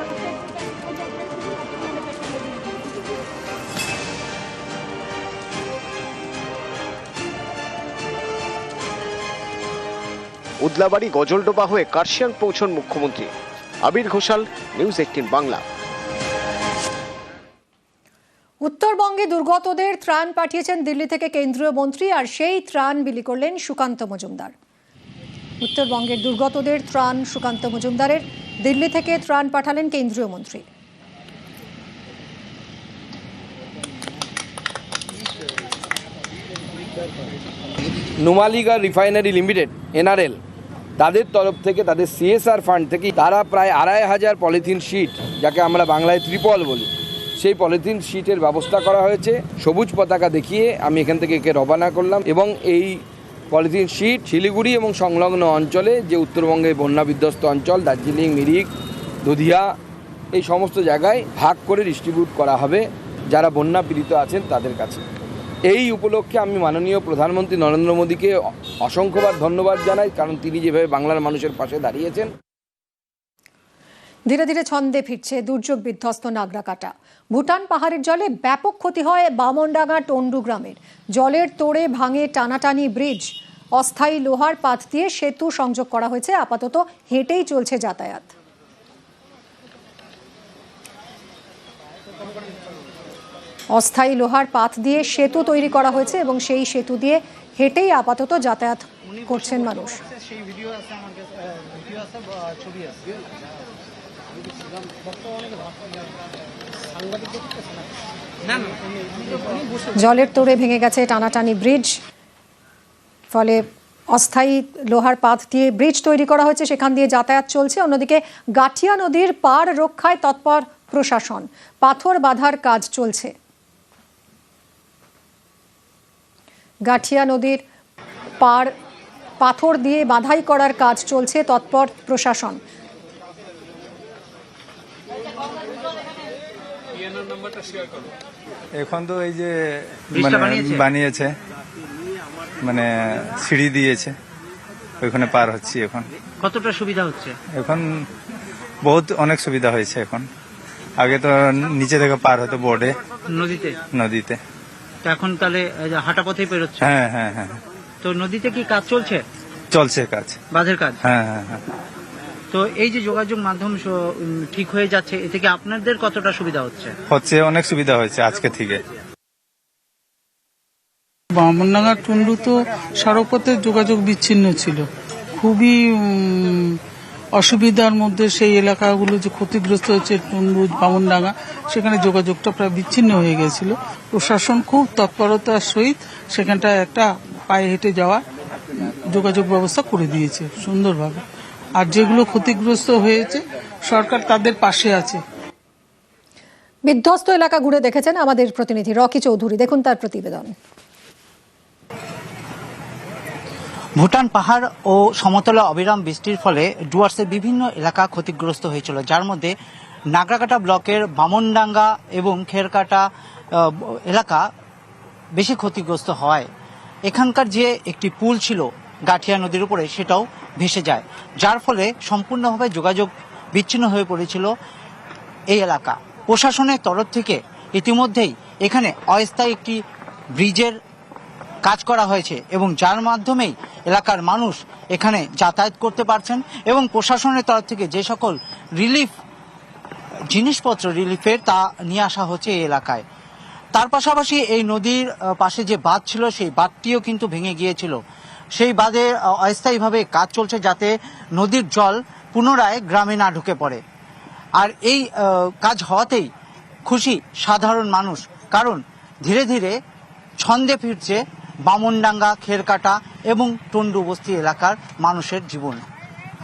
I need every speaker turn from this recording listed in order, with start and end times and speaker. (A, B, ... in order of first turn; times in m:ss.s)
0:10.6-0:13.3 A
0:13.8-0:15.6 A
0:18.6-0:24.5 B
0:25.6-0:30.6 B
0:38.2-0:40.4 C
0:41.0-0:53.0 C
0:53.5-0:58.7 C
0:59.2-0:59.7 C
1:00.3-1:05.0 C
1:05.7-1:12.3 C
1:14.3-1:28.3 B
1:33.7-1:40.0 B
1:50.0-1:52.0 B
1:53.3-2:03.3 B
2:06.9-2:07.6 B
2:08.4-2:08.7 B
2:09.4-2:12.6 B
2:18.8-2:19.5 D
2:20.1-2:21.3 D
2:20.1-2:20.8 E
2:22.6-2:24.1 D
2:25.0-2:26.1 D
2:26.4-2:27.3 E
2:27.5-2:27.8 D
2:28.8-2:30.2 D
2:31.0-2:33.0 D
2:33.2-2:33.8 E
2:33.9-2:34.4 D
2:35.0-2:36.8 E
2:36.8-2:37.6 D
2:38.0-2:39.2 E
2:39.7-2:40.4 D
2:40.5-2:41.0 E
2:41.0-2:41.6 D
2:42.5-2:46.9 E
2:47.1-2:48.8 D
2:51.3-2:54.9 F
2:55.4-2:56.7 F
2:57.3-3:08.2 F
3:08.8-3:11.2 F
3:11.8-3:15.2 F
3:16.8-3:20.5 B
3:24.0-3:29.5 G
3:30.1-3:34.4 G
3:35.4-3:36.5 G
3:37.1-3:44.5 G
3:45.5-3:49.8 G
3:50.4-3:50.8 G
3:51.6-3:59.1 G
4:00.3-4:03.0 G
4:03.7-4:08.0 G
4:08.6-4:13.8 G
4:14.6-4:16.3 G
4:16.9-4:19.8 G
4:20.4-4:25.8 G